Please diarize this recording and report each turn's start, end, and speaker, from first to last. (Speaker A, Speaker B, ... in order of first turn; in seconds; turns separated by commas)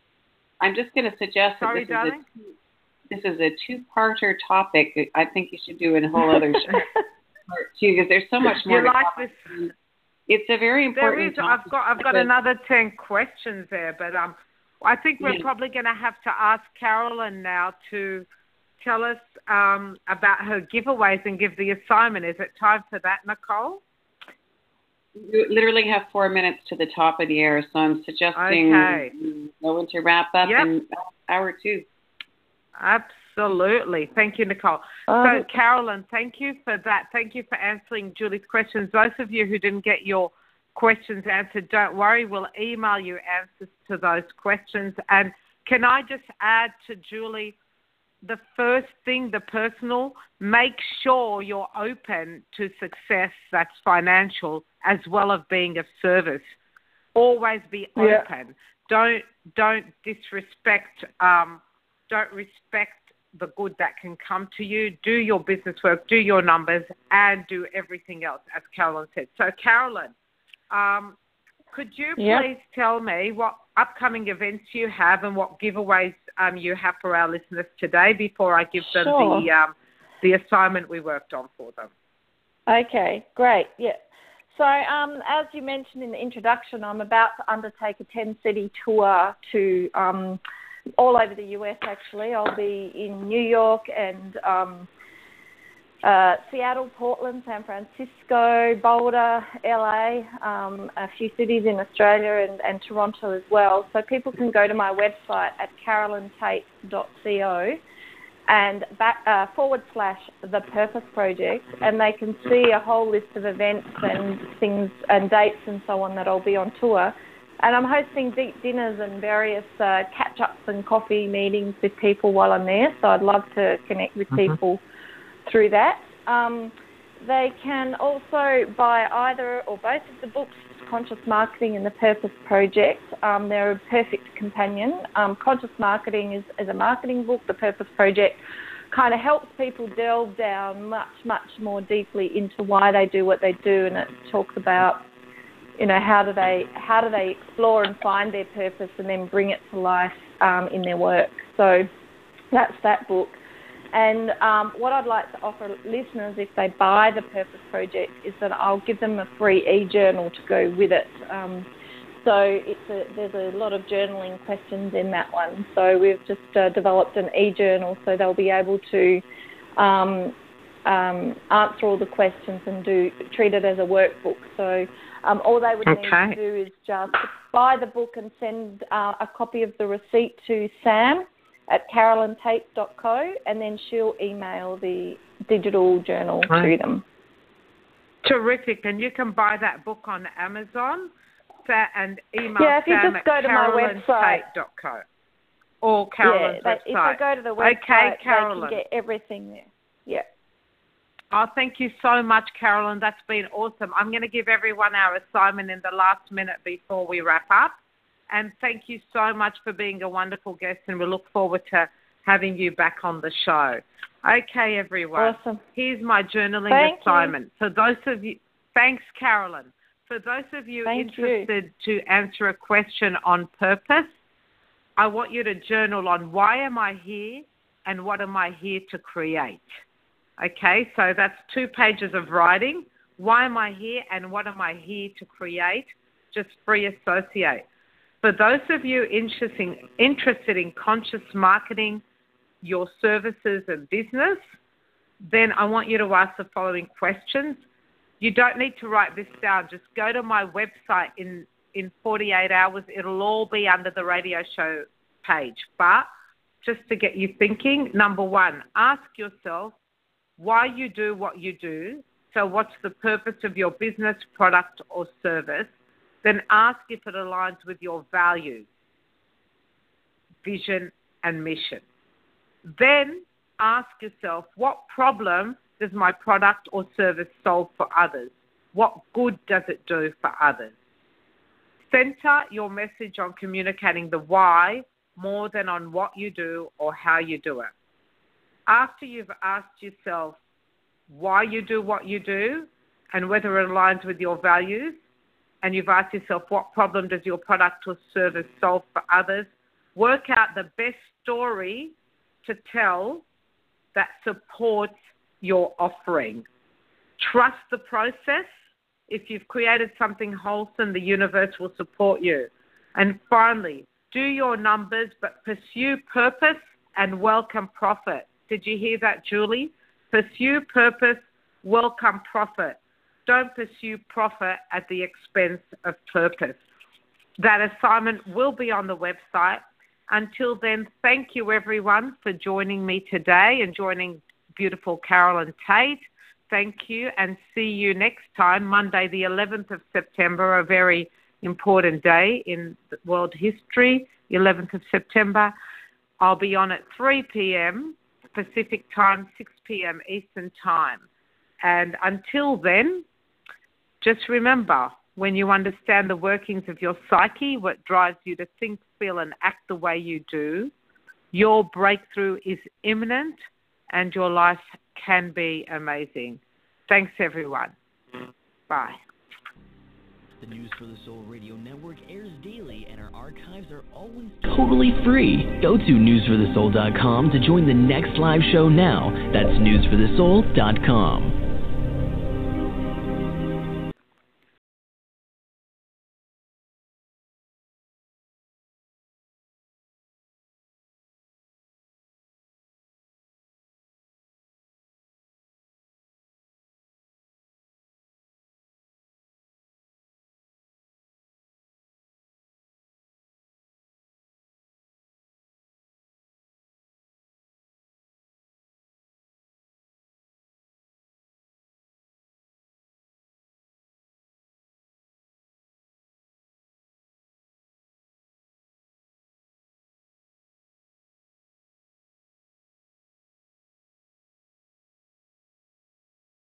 Speaker A: 0.6-2.5, Speaker B: 1.6-2.2, Speaker A: 3.1-6.9, Speaker A: 7.5-9.7, Speaker B: 8.7-9.5, Speaker A: 10.3-12.3, Speaker B: 10.9-18.3, Speaker B: 18.8-23.8, Speaker A: 25.2-31.9, Speaker B: 28.4-29.1, Speaker B: 30.4-30.7, Speaker B: 32.8-47.5, Speaker C: 35.1-35.5, Speaker B: 48.2-56.5, Speaker B: 57.1-70.1, Speaker C: 58.0-58.3, Speaker B: 70.7-71.2, Speaker B: 71.7-81.9, Speaker C: 72.2-72.5, Speaker C: 78.9-79.5, Speaker C: 82.7-84.0, Speaker C: 84.5-90.4, Speaker C: 91.0-94.9, Speaker C: 96.0-107.8, Speaker C: 108.5-124.8, Speaker C: 125.5-138.4, Speaker C: 138.9-145.0, Speaker C: 145.8-151.9, Speaker C: 152.5-153.4, Speaker C: 153.9-161.7, Speaker C: 162.2-169.2, Speaker C: 169.8-170.3, Speaker C: 170.9-187.0, Speaker B: 175.9-176.4, Speaker B: 188.2-191.1, Speaker B: 191.7-195.0, Speaker C: 192.6-194.4, Speaker B: 195.8-198.8, Speaker C: 196.2-200.3, Speaker B: 201.3-207.7, Speaker B: 208.3-224.1, Speaker C: 215.2-215.6, Speaker C: 216.7-217.3, Speaker C: 220.9-221.5, Speaker B: 225.0-229.7, Speaker B: 230.4-237.6, Speaker B: 238.2-242.0, Speaker B: 242.6-244.4, Speaker B: 245.3-247.6, Speaker B: 248.2-256.1, Speaker B: 256.6-259.7, Speaker B: 260.4-265.7, Speaker B: 266.2-268.6, Speaker B: 270.4-271.8, Speaker B: 272.7-280.7, Speaker B: 281.9-287.7, Speaker B: 288.7-290.4, Speaker B: 291.1-295.0, Speaker B: 295.6-301.9, Speaker B: 302.4-303.2, Speaker B: 303.9-306.4, Speaker B: 307.2-308.5, Speaker B: 309.1-326.6, Speaker B: 327.4-345.5, Speaker B: 346.2-351.0, Speaker B: 351.6-353.1, Speaker B: 354.0-360.7, Speaker B: 361.3-363.4, Speaker B: 363.9-367.7, Speaker B: 368.7-369.0, Speaker D: 370.4-381.4